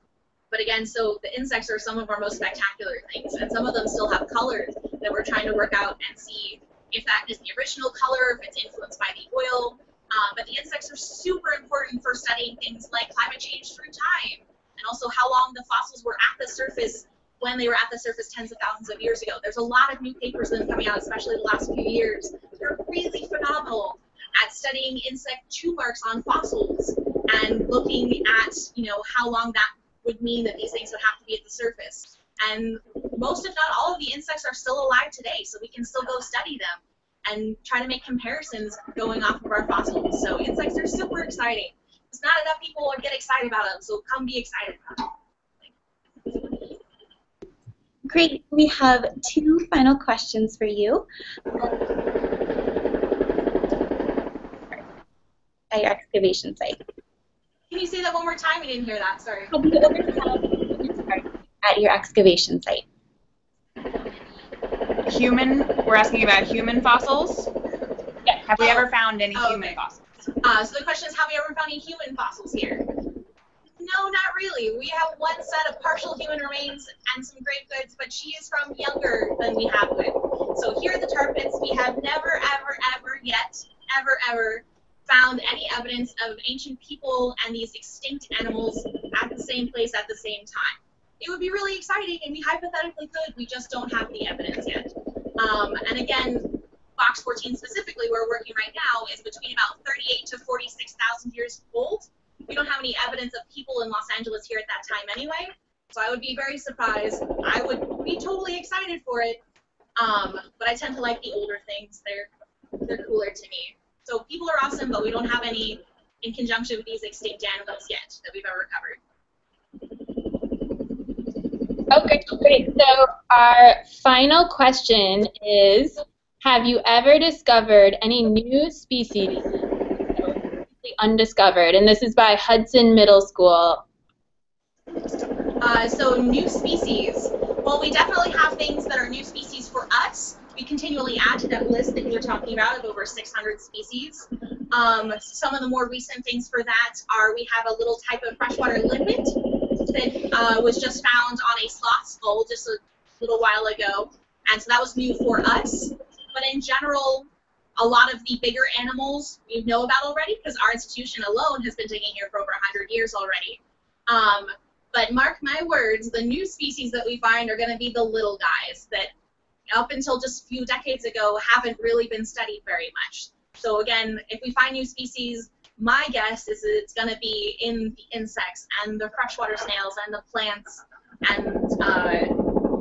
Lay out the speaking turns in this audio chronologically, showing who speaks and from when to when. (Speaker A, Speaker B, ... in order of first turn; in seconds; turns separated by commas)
Speaker A: 0.5-45.7, Speaker A: 46.2-46.7, Speaker B: 48.0-51.0, Speaker B: 55.7-56.8, Speaker A: 57.7-59.5, Speaker B: 59.9-60.2, Speaker B: 61.6-62.9, Speaker C: 65.0-67.5, Speaker C: 68.4-70.0, Speaker A: 68.6-69.8, Speaker A: 70.4-72.8, Speaker A: 73.8-109.4, Speaker A: 110.0-112.3, Speaker A: 112.8-119.0, Speaker D: 121.9-129.6, Speaker D: 130.1-133.8, Speaker A: 135.6-169.1, Speaker A: 169.7-182.3